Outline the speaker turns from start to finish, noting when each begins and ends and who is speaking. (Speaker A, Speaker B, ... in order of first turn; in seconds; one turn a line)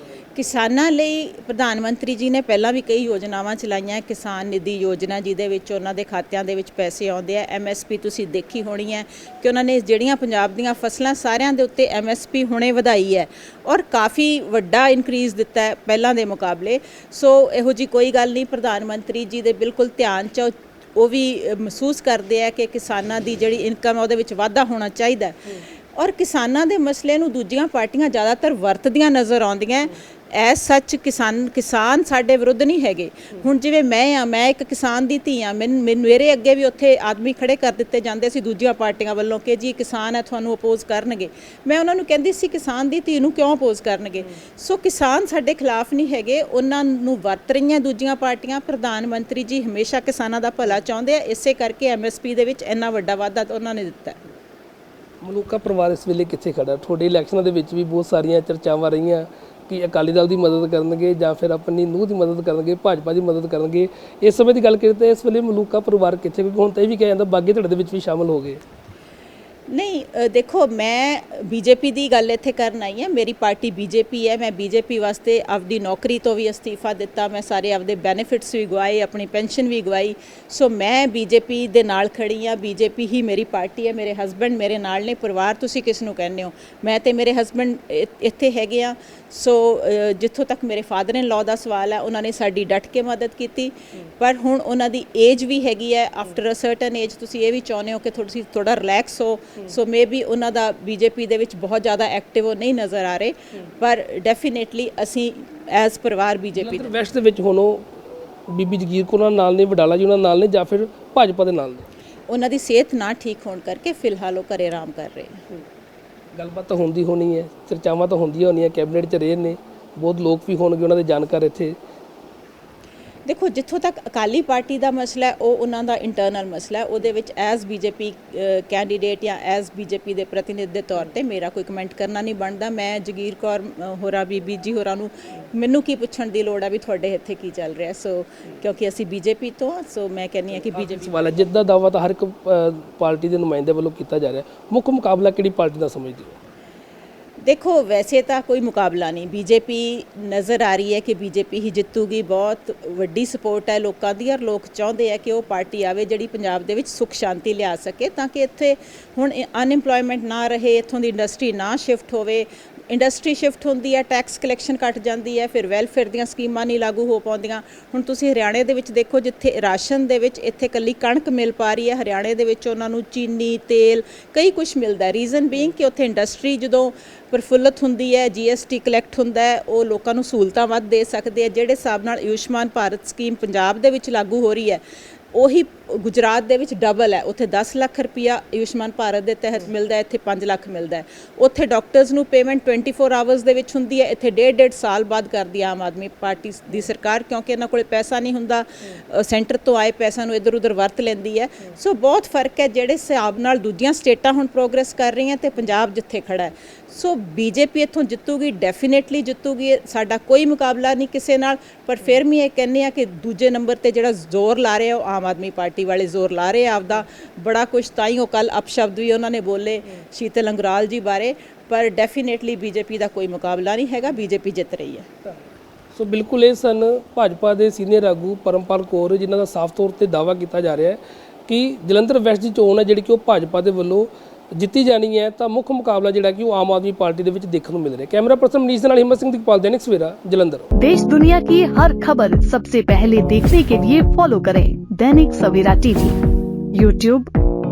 Speaker A: 0.3-54.2
Speaker B: 55.2-68.6
Speaker A: 69.7-106.9
Speaker B: 106.6-107.9
Speaker B: 108.5-111.9
Speaker A: 112.3-115.4
Speaker B: 116.3-121.8
Speaker A: 123.3-141.4
Speaker B: 140.8-146.4
Speaker A: 147.4-225.1
Speaker B: 225.9-240.7
Speaker C: 240.8-246.2
Speaker C: 246.7-247.3